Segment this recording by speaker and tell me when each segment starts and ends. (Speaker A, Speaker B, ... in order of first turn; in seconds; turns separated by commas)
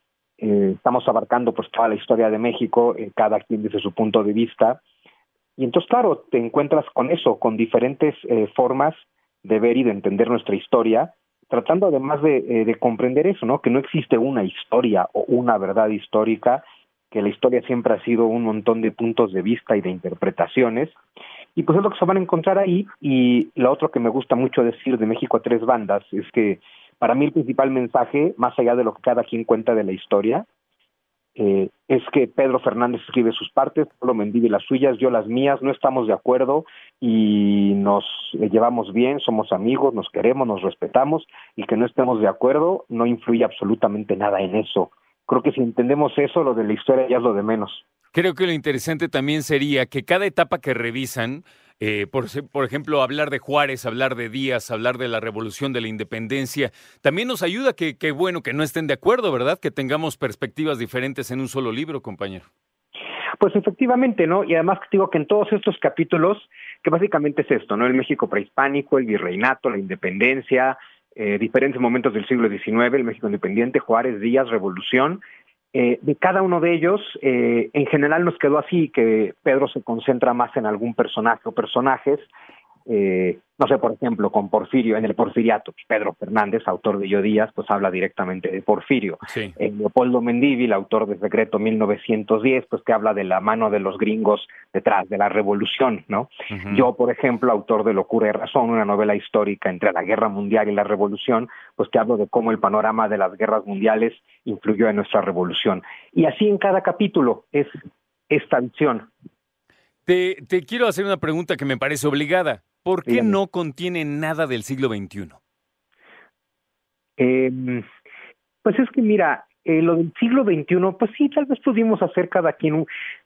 Speaker A: 0.4-4.8, Speaker A: 5.6-21.0, Speaker A: 21.6-30.4, Speaker A: 31.4-47.8, Speaker B: 48.1-62.5, Speaker A: 63.4-75.2, Speaker A: 75.7-82.3, Speaker A: 82.9-107.7, Speaker B: 89.3-89.5, Speaker B: 96.5-96.9, Speaker A: 108.3-109.1, Speaker B: 110.0-115.4, Speaker A: 113.1-113.4, Speaker A: 117.2-117.8, Speaker A: 118.6-122.9